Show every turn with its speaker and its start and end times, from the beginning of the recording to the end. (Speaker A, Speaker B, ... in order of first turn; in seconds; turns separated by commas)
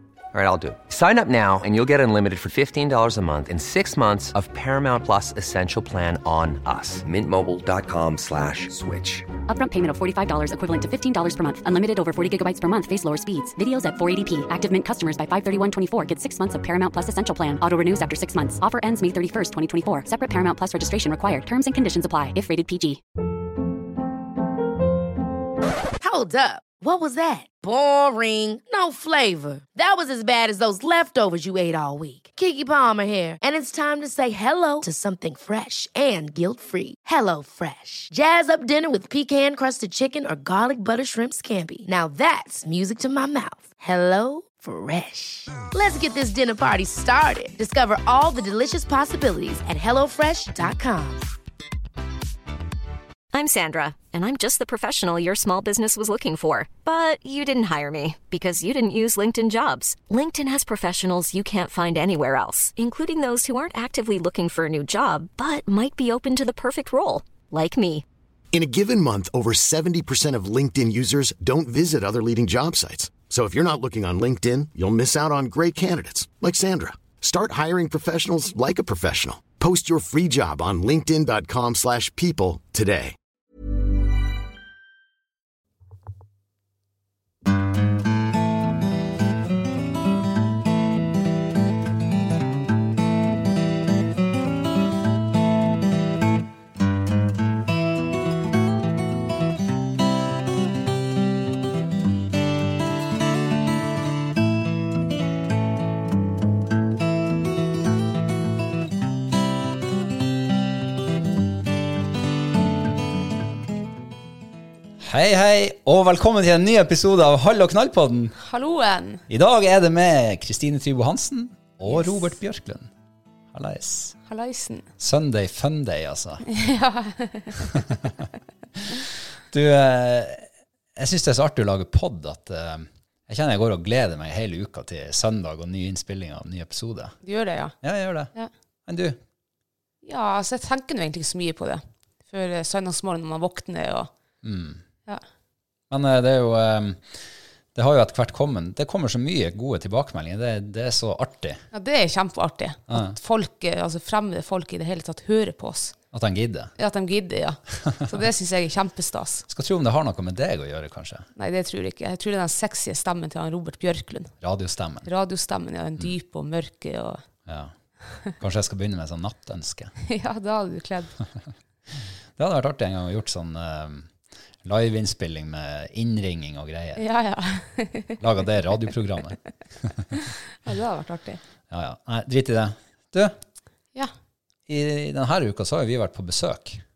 Speaker A: 0.3-9.3, Speaker B: 9.5-23.0, Speaker C: 26.0-51.3, Speaker D: 53.3-68.0, Speaker E: 68.5-83.1, Speaker F: 115.0-118.3, Speaker G: 118.4-119.2, Speaker F: 119.3-122.9, Speaker G: 121.9-122.3, Speaker F: 123.5-124.2, Speaker G: 124.3-124.9, Speaker F: 125.0-126.5, Speaker G: 126.5-127.8, Speaker F: 129.5-137.2, Speaker G: 137.2-137.7, Speaker F: 137.8-138.3, Speaker F: 138.8-139.2, Speaker G: 140.0-144.1, Speaker F: 144.4-144.8, Speaker F: 145.9-147.2, Speaker F: 147.7-151.6, Speaker G: 151.7-155.9, Speaker F: 152.9-153.2, Speaker F: 156.1-156.7, Speaker G: 156.8-159.4, Speaker F: 159.5-161.3, Speaker G: 161.3-164.3, Speaker F: 164.4-165.1, Speaker G: 165.0-167.2, Speaker F: 167.5-167.7, Speaker F: 168.4-169.9, Speaker G: 170.1-171.2, Speaker F: 172.4-174.1, Speaker F: 174.6-177.0, Speaker G: 176.9-178.2, Speaker F: 178.2-180.1, Speaker G: 180.2-181.4, Speaker F: 181.7-183.4, Speaker F: 184.7-186.8